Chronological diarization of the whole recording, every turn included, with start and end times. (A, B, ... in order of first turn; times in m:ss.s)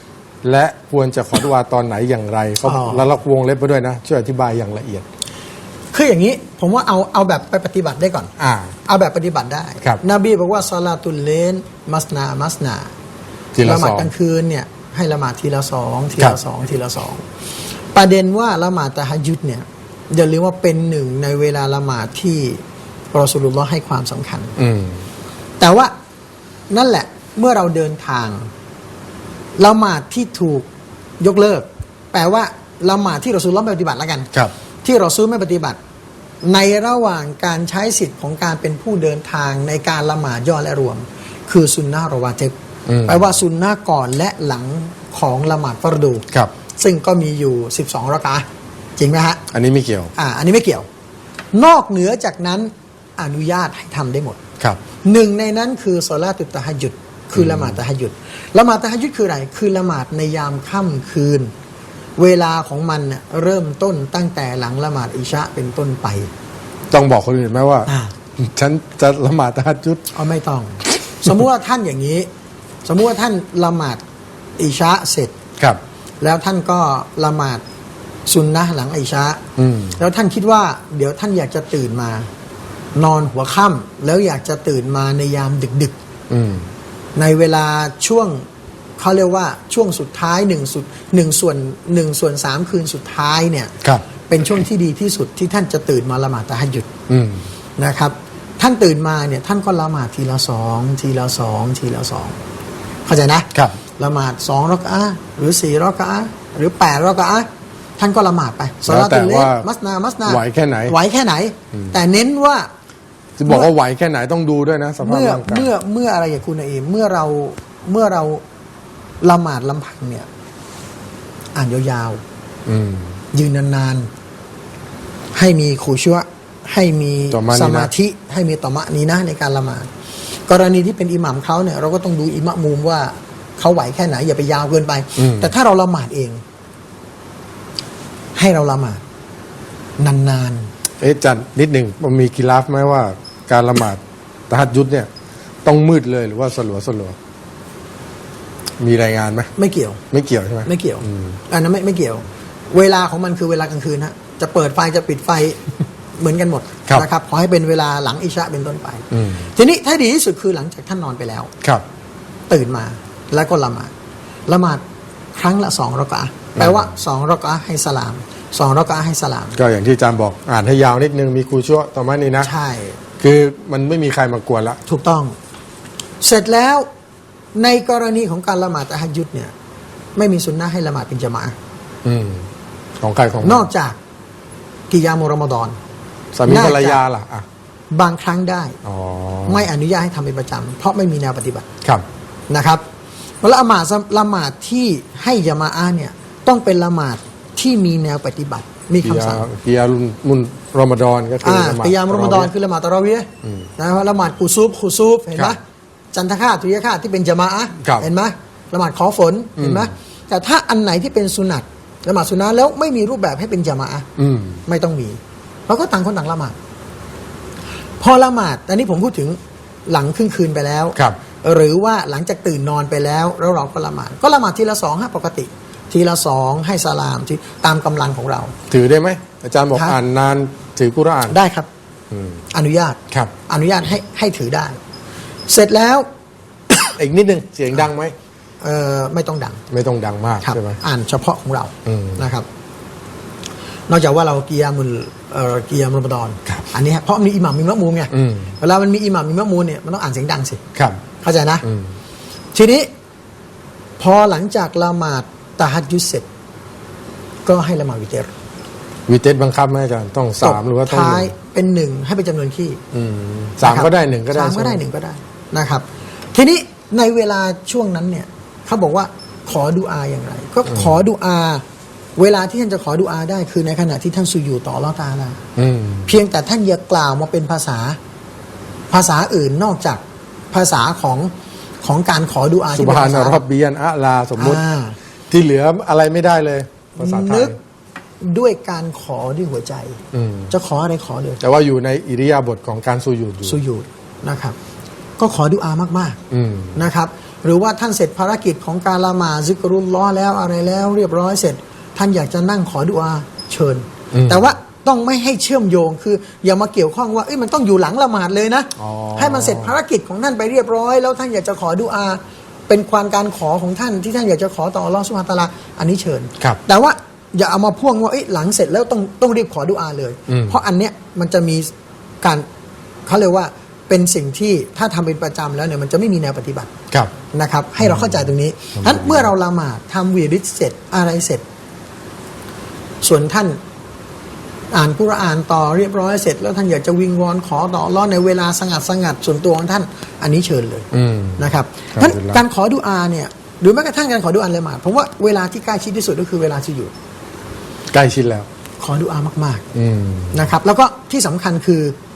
0:00.4-0:05.0 A
0:02.6-0:03.0 B
0:05.9-0:08.3 B
0:08.4-0:08.8 A
0:08.8-0:12.9 B
0:13.5-0:14.1 A
0:13.6-0:17.2 B
0:17.9-0:22.6 B
0:23.1-0:24.6 B
0:24.6-0:25.0 A
0:25.6-0:25.9 B
0:26.7-0:28.5 B
0:29.6-0:30.6 B
0:31.2-0:34.3 B
0:34.8-0:35.8 B
0:36.4-0:42.5 B
0:42.9-0:43.2 A
0:43.0-0:46.2 B
0:46.8-0:48.4 B
0:49.0-0:49.4 B
0:49.5-0:50.1 A
0:50.1-0:50.8 B
0:51.5-0:54.4 B
0:55.0-1:01.5 B
0:57.3-0:57.8 A
1:02.2-1:06.3 B
1:06.9-1:10.0 A
1:07.9-1:08.1 B
1:10.1-1:12.3 B
1:12.8-1:14.0 B
1:14.6-1:15.3 B
1:16.2-1:17.6 B
1:18.3-1:19.4 B
1:19.6-1:20.0 A
1:20.0-1:22.3 B
1:22.9-1:25.9 B
1:26.3-1:26.7 A
1:27.2-1:28.4 B
1:29.0-1:33.8 B
1:34.3-1:36.9 B
1:37.1-1:37.5 A
1:37.8-1:42.4 B
1:43.0-1:52.7 B
1:48.8-1:49.7 A
1:50.2-1:50.9 A
1:53.4-1:55.7 A
1:53.4-1:53.7 B
1:55.0-1:58.4 B
1:59.2-2:00.3 B
2:01.5-2:02.2 B
2:02.6-2:03.2 A
2:03.3-2:04.1 B
2:05.3-2:09.9 B
2:07.3-2:07.9 A
2:10.5-2:16.4 B
2:15.2-2:15.5 A
2:18.3-2:19.0 B
2:20.0-2:20.7 B
2:21.0-2:25.1 A
2:25.6-2:27.2 A
2:28.8-2:29.5 A
2:29.6-2:30.0 B
2:30.1-2:31.4 A
2:30.6-2:35.6 B
2:36.2-2:41.5 B
2:39.1-2:39.5 A
2:42.5-2:43.9 B
2:44.5-2:44.8 B
2:45.3-2:49.6 B
2:46.6-2:46.9 A
2:49.6-2:52.5 A
2:52.4-2:53.0 B
2:53.2-2:54.8 A
2:54.9-2:55.3 B
2:56.2-2:56.8 B
2:57.5-2:59.5 B
3:00.2-3:01.5 B
3:02.0-3:02.5 A
3:03.0-3:03.7 A
3:03.4-3:04.0 B
3:04.9-3:05.8 B
3:06.3-3:07.4 A
3:06.4-3:07.0 B
3:07.9-3:08.8 B
3:08.8-3:09.7 A
3:09.4-3:11.6 B
3:12.5-3:12.8 B
3:13.4-3:19.5 B
3:19.0-3:22.5 A
3:21.4-3:25.6 B
3:23.4-3:23.7 A
3:26.1-3:34.1 B
3:27.8-3:28.1 A
3:29.6-3:29.9 A
3:34.2-3:34.6 A
3:34.6-3:36.6 B
3:38.0-3:48.5 B
3:48.7-3:51.4 A
3:51.3-3:51.7 B
3:52.1-3:52.4 A
3:52.5-3:54.8 B
3:55.5-3:56.0 B
3:57.0-3:58.1 A
3:58.6-3:59.6 B
3:59.7-4:00.8 A
4:00.4-4:02.4 B
4:01.8-4:02.2 A
4:03.9-4:10.6 B
4:08.1-4:08.5 A
4:10.7-4:11.0 A
4:11.2-4:11.6 B
4:11.6-4:11.9 A
4:12.5-4:12.9 B
4:14.0-4:16.2 B
4:17.4-4:18.3 B
4:19.1-4:21.3 A
4:20.4-4:22.8 B
4:22.9-4:24.8 A
4:23.6-4:31.6 B
4:32.2-4:35.4 B
4:35.6-4:36.1 A
4:36.0-4:38.0 B
4:38.9-4:41.3 B
4:41.8-4:43.4 B
4:42.7-4:44.6 A
4:44.4-4:45.0 B
4:45.3-4:47.5 A
4:47.0-4:47.6 B
4:48.2-4:50.0 B
4:50.1-4:50.5 A
4:50.5-4:51.4 B
4:51.4-4:53.6 A
4:53.4-4:54.6 B
4:55.2-4:56.2 B
4:56.3-4:56.8 A
4:56.7-5:21.7 B
5:04.1-5:04.5 A
5:08.8-5:09.7 A
5:20.3-5:20.6 A
5:23.0-5:26.7 B
5:27.3-5:31.4 B
5:27.8-5:29.3 A
5:33.0-5:33.6 B
5:34.7-5:46.9 B
5:40.9-5:42.4 A
5:47.9-5:48.5 A
5:48.8-5:49.6 B
5:49.7-5:50.4 A
5:50.3-5:51.9 B